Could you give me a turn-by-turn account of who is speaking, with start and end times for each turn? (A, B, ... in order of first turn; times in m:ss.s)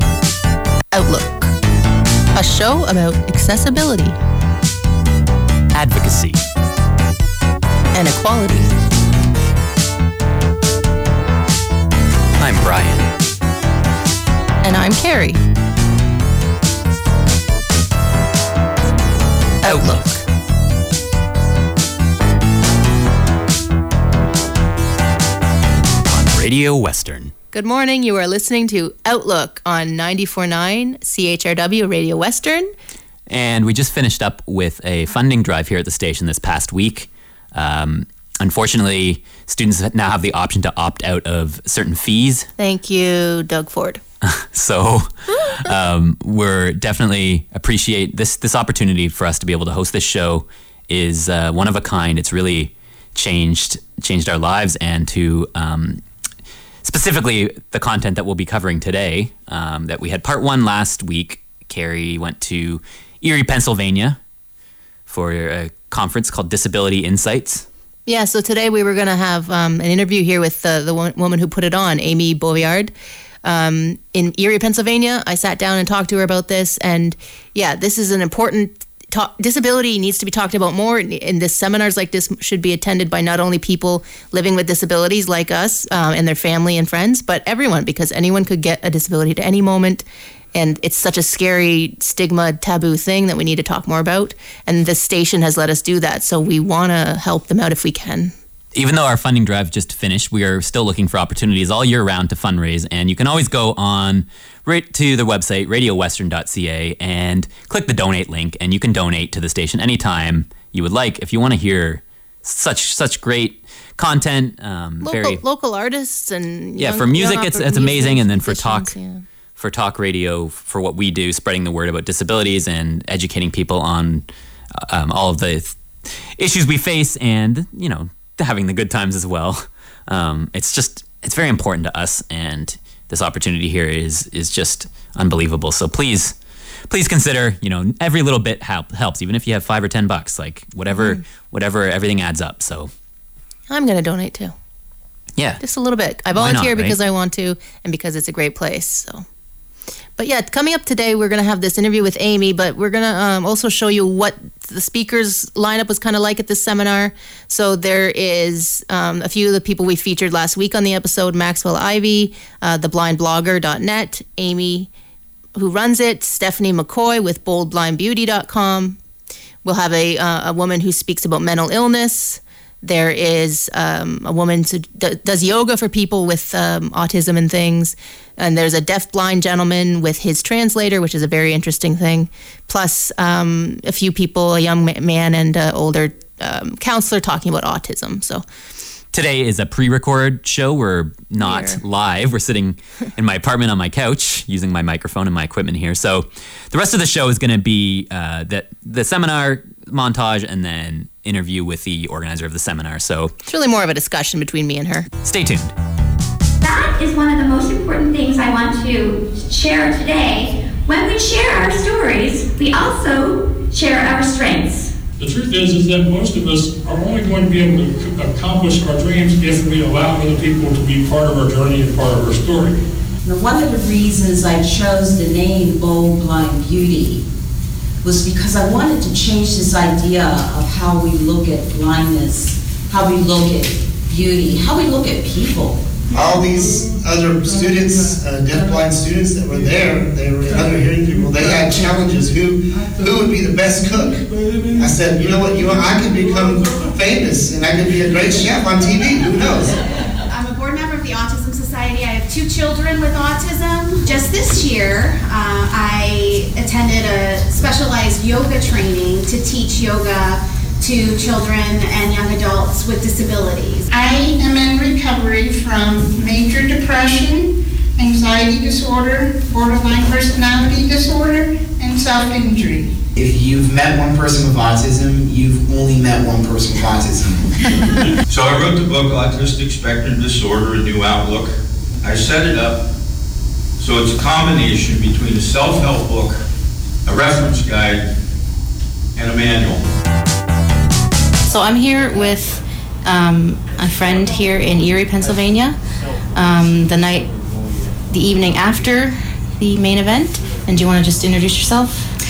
0:00.9-0:01.5 A
0:02.3-0:04.2 A
0:05.7-0:06.4 B
0:07.9-0:08.7 A
0:12.4-0:13.1 B
0:14.6-0:15.4 A
0:19.6-0:20.2 A
0:19.6-0:20.0 B
0:26.1-0:27.3 B
0:27.5-0:32.7 A
0:33.3-0:42.5 B
0:42.6-0:44.0 A
0:44.2-0:56.0 B
0:56.8-1:04.2 B
1:05.1-1:07.7 B
1:08.0-1:12.9 A
1:13.4-1:38.3 A
1:38.7-1:55.4 B
1:55.0-1:59.2 A
1:56.8-1:58.9 B
1:59.6-2:04.3 B
2:04.8-2:16.3 B
2:16.9-2:22.9 B
2:20.9-2:21.2 A
2:23.7-2:24.5 A
2:25.4-2:25.6 B
2:25.6-2:29.2 A
2:26.3-2:27.0 B
2:30.2-2:44.9 A
2:45.6-2:49.0 A
2:49.6-3:08.4 A
3:09.1-3:23.3 B
3:11.4-3:11.8 A
3:23.5-3:25.1 A
3:25.2-3:25.7 B
3:26.6-3:34.9 C
3:35.2-3:42.8 D
3:43.2-3:47.2 E
3:48.0-3:55.8 E
3:56.4-3:56.9 F
3:57.9-3:58.1 F
3:59.6-4:00.2 F
4:00.8-4:01.7 F
4:04.9-4:07.2 F
4:07.9-4:08.5 F
4:10.2-4:23.9 G
4:23.9-4:33.0 H
4:33.1-4:37.5 I
4:37.8-4:38.1 D
4:38.3-4:42.9 J
4:43.8-4:46.4 J
4:47.0-4:48.1 J
4:49.2-4:49.8 J
4:51.4-4:55.8 A
4:56.3-4:57.3 A
4:58.1-5:02.1 A